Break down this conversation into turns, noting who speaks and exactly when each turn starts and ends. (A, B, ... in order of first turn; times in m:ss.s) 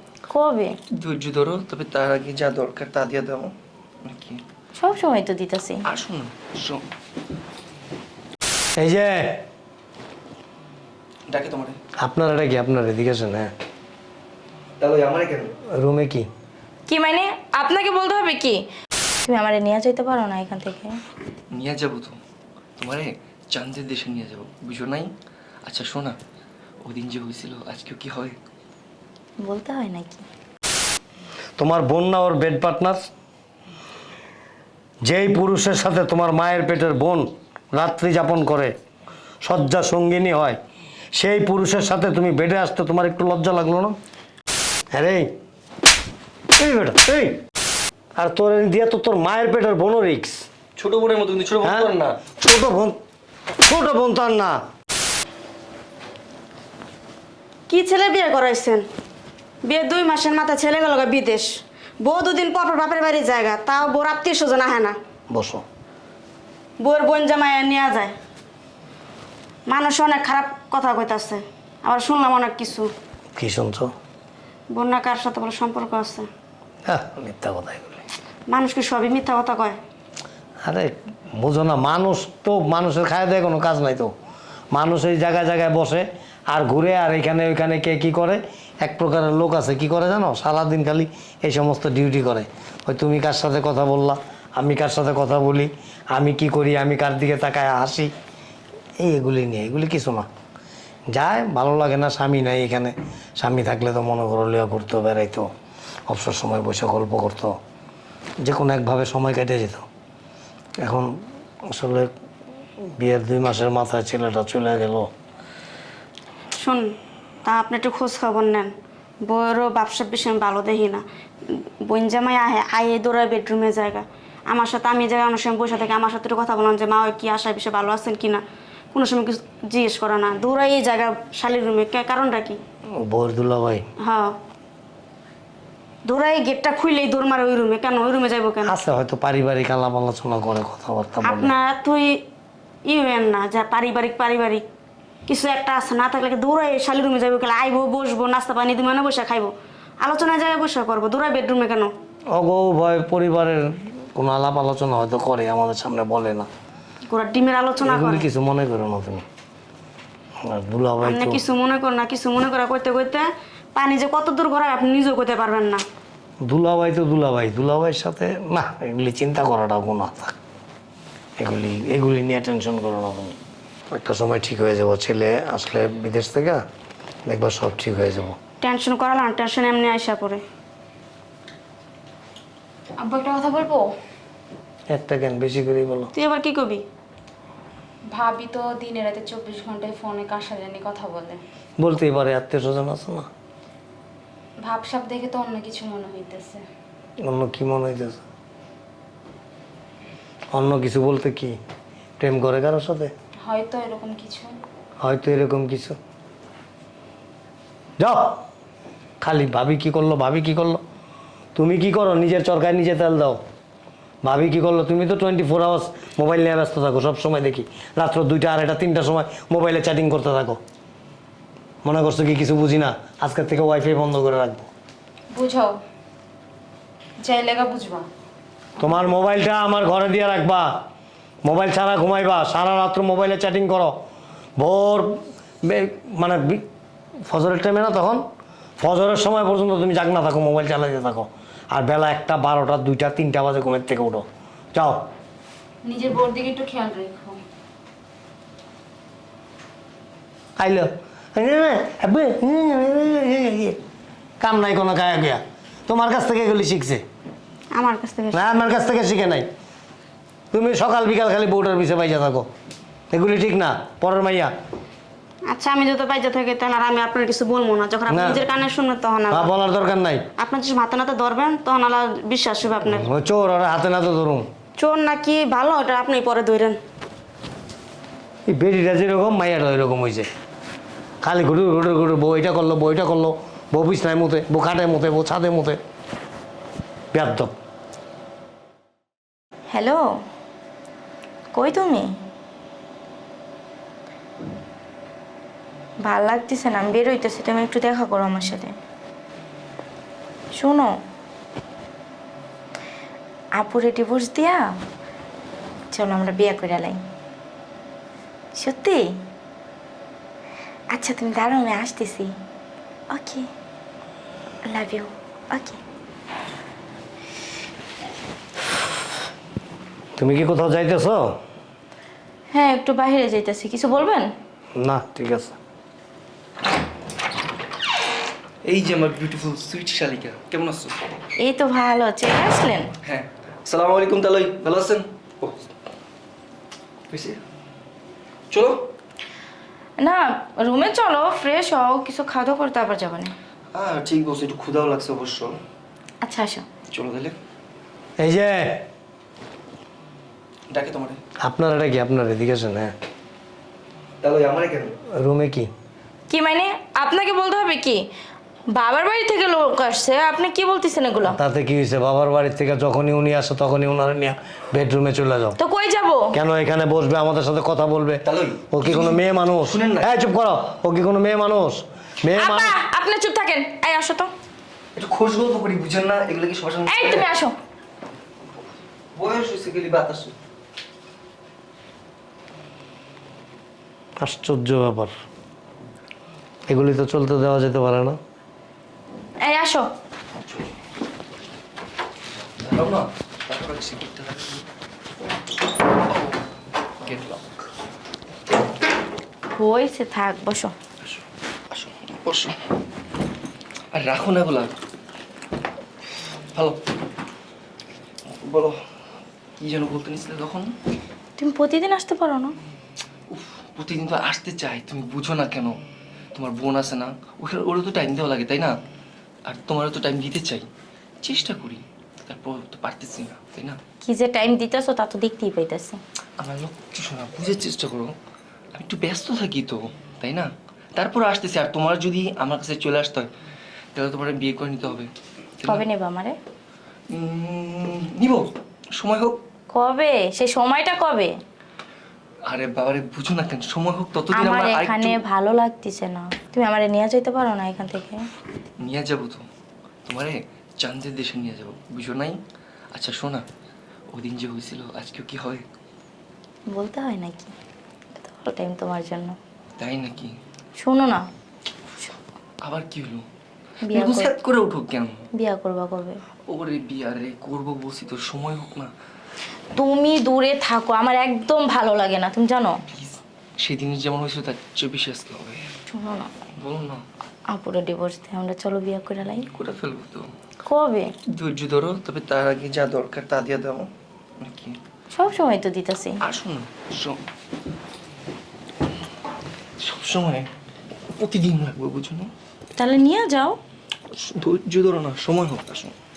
0:00.3-0:00.8 A
0:01.0-0:03.5 B
0:04.0-0:04.4 B
0:04.8-0:05.8 A
0:05.9-0:06.8 B
0:08.8-0:09.4 C
0:11.3-0:11.8 B
0:12.0-0:13.5 C
0:14.8-0:15.5 B
0:15.7-0:16.3 C
0:16.9-0:18.6 A
0:19.2-0:21.0 A
0:21.5-0:22.2 B
0:22.8-0:25.1 B
0:25.6-0:26.2 B
0:26.8-0:28.4 B
0:29.4-0:30.2 A
0:31.6-0:33.1 C
0:35.1-0:38.7 C
0:39.4-0:40.6 C
0:41.1-0:44.0 C
0:44.9-0:45.3 C
0:46.6-0:47.4 C
0:48.2-0:50.4 C
0:50.8-0:52.2 B
0:51.6-0:53.0 C
0:53.6-0:54.6 C
0:57.7-0:58.8 D
0:59.6-1:01.5 D
1:02.0-1:05.0 D
1:05.3-1:05.6 C
1:06.8-1:08.1 D
1:09.7-1:12.9 D
1:13.4-1:13.9 C
1:14.7-1:16.3 D
1:16.9-1:18.0 C
1:18.5-1:19.8 D
1:20.6-1:24.1 C
1:24.7-1:38.1 C
1:39.0-1:40.3 C
1:41.1-1:45.5 C
1:46.1-1:47.6 C
1:48.4-1:49.9 C
1:50.8-1:51.2 C
1:51.7-1:52.1 C
1:53.0-1:55.1 C
1:56.6-1:56.9 D
1:57.4-1:58.7 D
1:59.2-2:08.4 D
2:08.9-2:12.6 D
2:12.9-2:13.9 C
2:14.0-2:14.3 D
2:16.1-2:18.7 D
2:18.6-2:21.5 C
2:21.2-2:22.2 D
2:22.9-2:24.6 D
2:25.3-2:31.9 D
2:32.3-2:36.5 C
2:37.1-2:38.3 D
2:37.8-2:39.2 C
2:40.4-2:41.4 C
2:41.0-2:45.8 D
2:46.5-2:50.4 C
2:51.4-2:53.4 C
2:53.9-2:56.6 C
2:57.3-2:58.4 C
2:58.6-3:00.4 D
3:03.0-3:03.8 E
3:04.9-3:06.1 C
3:06.2-3:06.8 D
3:08.1-3:11.4 E
3:11.8-3:13.3 C
3:14.6-3:16.6 E
3:17.2-3:18.2 C
3:20.5-3:21.6 C
3:22.2-3:23.1 C
3:23.4-3:24.5 E
3:25.0-3:26.0 C
3:28.0-3:28.4 C
3:29.2-3:30.8 C
3:31.6-3:33.4 C
3:34.2-3:40.6 C
3:41.8-3:44.7 C
3:45.3-3:45.7 E
3:47.2-3:48.1 E
3:48.8-3:50.8 C
3:51.4-3:54.0 C
3:54.6-3:56.6 C
3:57.3-3:58.2 C
3:58.8-4:05.0 C
4:05.8-4:07.4 E
4:10.6-4:13.8 C
4:14.4-4:17.0 C
4:17.7-4:18.4 D
4:18.3-4:19.5 C
4:20.5-4:22.5 C
4:23.1-4:24.5 C
4:25.5-4:29.5 D
4:28.1-4:28.4 C
4:29.3-4:30.2 C
4:30.4-4:33.1 D
4:32.9-4:34.5 C
4:34.8-4:36.8 D
4:38.5-4:40.3 C
4:41.2-4:45.8 C
4:47.1-4:47.5 C
4:49.7-4:50.0 A
4:51.5-4:52.1 A
4:56.0-4:58.7 A
5:00.6-5:01.0 A
5:03.6-5:04.8 A
5:05.9-5:07.0 A
5:08.6-5:09.2 A
5:10.9-5:12.3 A
5:13.1-5:13.5 A
5:14.6-5:15.8 A
5:20.2-5:21.4 C
5:22.5-5:24.3 A
5:24.8-5:25.6 C
5:28.6-5:31.0 B
5:31.4-5:32.9 A
5:33.0-5:35.6 B
5:37.1-5:37.4 B
5:38.5-5:38.8 B
5:40.0-5:43.3 A
5:43.7-5:45.6 B
5:46.2-5:46.6 A
5:46.9-5:47.4 B
5:48.2-5:48.8 C
5:50.7-5:51.2 B
5:51.4-5:52.9 C
5:54.2-5:54.9 B
5:55.1-5:55.7 C
5:56.3-5:58.1 A
5:58.7-6:01.4 A
6:01.2-6:05.6 C
6:05.6-6:06.3 A
6:06.3-6:12.8 C
6:08.2-6:10.1 B
6:12.3-6:14.3 A
6:15.0-6:17.3 B
6:16.9-6:17.5 A
6:19.2-6:20.3 B
6:24.2-6:25.1 C
6:26.7-6:28.2 C
6:29.4-6:29.9 A
6:32.6-6:34.6 B
6:37.0-6:37.4 B
6:39.5-6:40.7 A
6:41.0-6:42.6 B
6:43.9-6:44.7 B
6:46.5-6:46.8 B
6:48.3-6:48.8 B
6:49.6-6:50.7 B
6:51.4-6:52.6 A
6:53.3-6:55.8 B
6:56.3-6:58.7 B
6:59.5-7:00.7 B
7:01.2-7:03.8 B
7:04.0-7:06.0 A
7:06.4-7:08.2 B
7:08.7-7:13.3 B
7:14.0-7:15.1 B
7:15.6-7:16.4 A
7:17.2-7:19.4 B
7:19.7-7:21.3 A
7:22.5-7:25.2 B
7:24.4-7:28.2 A
7:28.8-7:29.4 B
7:30.1-7:32.4 B
7:32.9-7:33.4 B
7:34.1-7:35.6 B
7:36.7-7:37.5 A
7:38.2-7:39.4 A
7:39.8-7:40.3 B
7:40.8-7:41.3 A
7:42.6-7:43.3 B
7:43.8-7:44.3 A
7:43.9-7:45.2 B
7:45.3-7:46.2 A
7:46.5-7:48.9 B
7:49.8-7:52.8 A
7:52.9-7:55.7 B
7:55.9-7:56.3 A
7:56.6-7:57.0 B
7:57.5-7:59.5 A
7:59.6-8:00.3 B
8:00.6-8:01.1 A
8:01.3-8:03.9 B
8:04.4-8:04.8 B
8:05.1-8:06.2 A
8:06.2-8:07.2 B
8:09.8-8:10.5 B
8:11.2-8:12.3 B
8:12.8-8:13.6 A
8:14.1-8:15.9 B